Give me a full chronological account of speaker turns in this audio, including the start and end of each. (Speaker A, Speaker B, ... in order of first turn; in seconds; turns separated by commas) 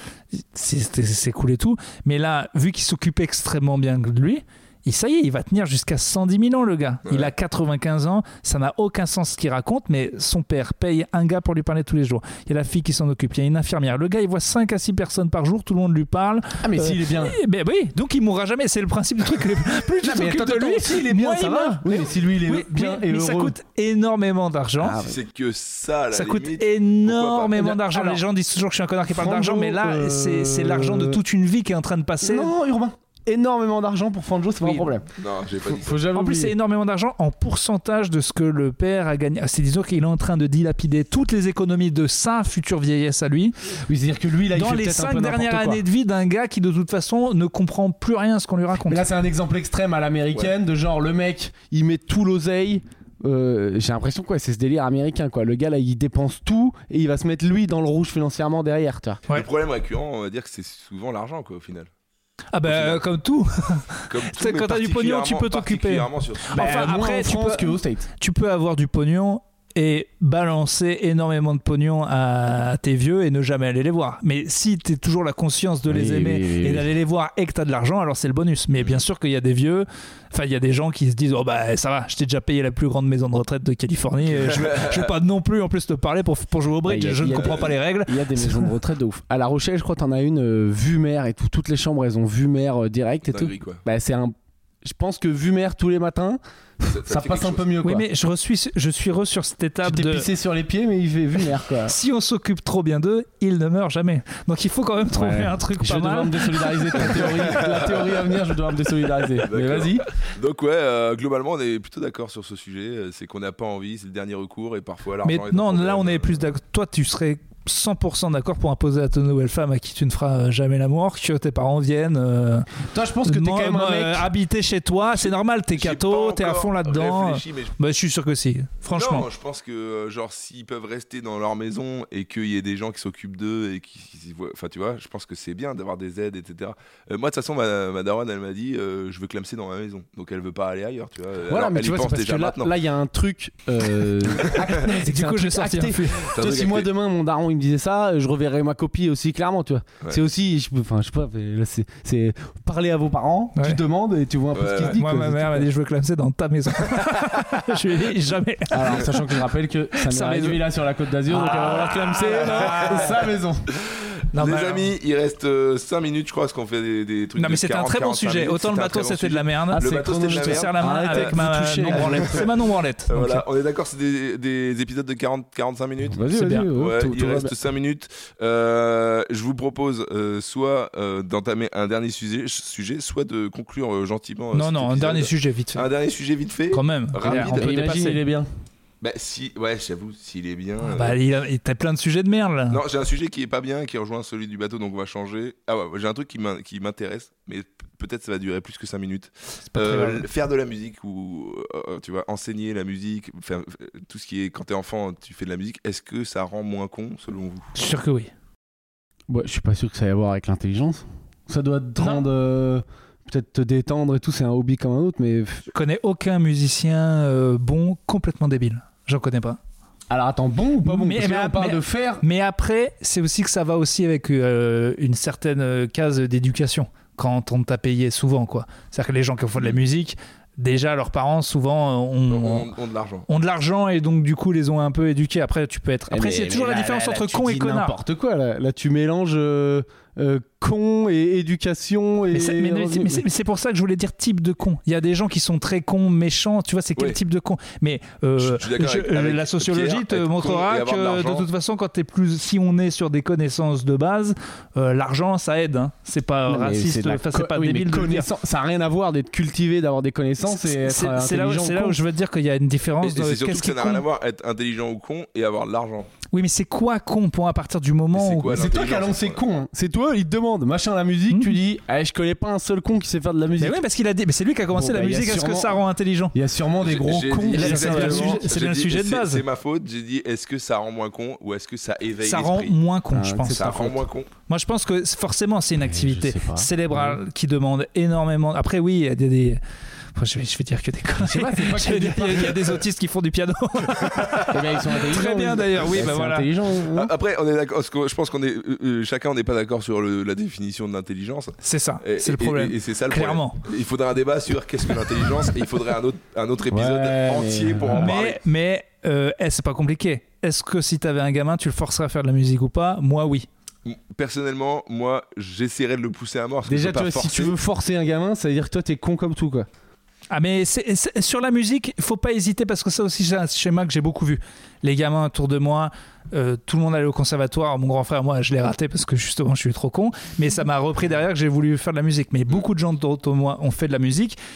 Speaker A: 0.3-25.0, Speaker B: 7.0-7.3, Speaker C: 16.6-17.4, Speaker C: 20.0-23.5, Speaker C: 24.8-25.2, Speaker B: 25.0-27.6, Speaker A: 26.1-32.5, Speaker C: 27.6-28.2, Speaker C: 29.1-31.2, Speaker C: 32.2-35.1, Speaker B: 35.1-36.1, Speaker C: 35.7-36.5, Speaker A: 36.1-43.5, Speaker C: 43.9-45.8, Speaker A: 44.5-49.0, Speaker C: 48.9-59.2, Speaker B: 59.3-61.9, Speaker A: 62.5-88.7, Speaker B: 62.6-63.0, Speaker B: 64.1-67.0, Speaker C: 66.5-68.1, Speaker C: 75.9-76.9, Speaker B: 84.3-85.1, Speaker C: 86.8-98.1, Speaker B: 87.3-87.7, Speaker B: 93.3-93.8, Speaker B: 96.8-97.7, Speaker A: 97.8-100.3, Speaker C: 99.8-101.9, Speaker A: 101.8-107.3, Speaker C: 105.1-110.0, Speaker B: 107.1-108.3, Speaker B: 109.4-116.5, Speaker A: 115.2-129.2, Speaker C: 122.9-124.3, Speaker B: 125.1-127.7, Speaker B: 128.9-142.7, Speaker C: 141.5-155.7, Speaker A: 144.6-146.3, Speaker B: 146.2-146.9, Speaker B: 154.5-155.0, Speaker A: 154.8-159.4, Speaker C: 158.7-163.7, Speaker A: 159.9-160.7, Speaker A: 161.3-163.2, Speaker B: 162.2-163.0, Speaker B: 163.9-172.5, Speaker A: 164.3-164.9, Speaker A: 167.4-173.4, Speaker C: 169.7-172.5, Speaker B: 173.1-176.2, Speaker C: 176.1-177.5, Speaker A: 176.3-176.7, Speaker B: 176.7-187.7, Speaker A: 184.5-185.9, Speaker A: 186.7-188.2, Speaker C: 187.2-188.5, Speaker B: 189.0-191.2, Speaker A: 190.8-192.8, Speaker B: 192.7-207.7, Speaker A: 199.7-200.2, Speaker A: 207.7-208.3, Speaker C: 209.3-215.7, Speaker A: 212.0-212.2, Speaker A: 215.7-219.6, Speaker C: 220.1-222.2, Speaker A: 220.8-232.7, Speaker B: 232.3-233.3, Speaker A: 233.3-237.9, Speaker C: 236.1-243.2, Speaker A: 242.3-258.3, Speaker B: 248.4-251.5, Speaker C: 256.5-262.0, Speaker A: 260.4-264.0, Speaker B: 263.0-266.1, Speaker A: 266.3-268.6, Speaker B: 268.1-269.4, Speaker C: 268.5-273.8, Speaker A: 273.6-276.3, Speaker C: 274.7-275.8, Speaker C: 276.3-278.5, Speaker B: 276.8-282.8, Speaker A: 277.5-279.4, Speaker A: 282.2-283.8, Speaker C: 283.1-284.0, Speaker B: 283.5-284.3, Speaker A: 284.5-289.6, Speaker C: 285.8-287.2, Speaker A: 290.1-296.5, Speaker C: 291.2-292.8, Speaker B: 294.0-294.4, Speaker C: 294.5-297.1, Speaker B: 296.9-308.4, Speaker A: 301.6-303.6, Speaker C: 306.7-308.2, Speaker A: 307.9-313.5, Speaker B: 313.9-317.6, Speaker C: 316.6-319.7, Speaker A: 320.3-334.4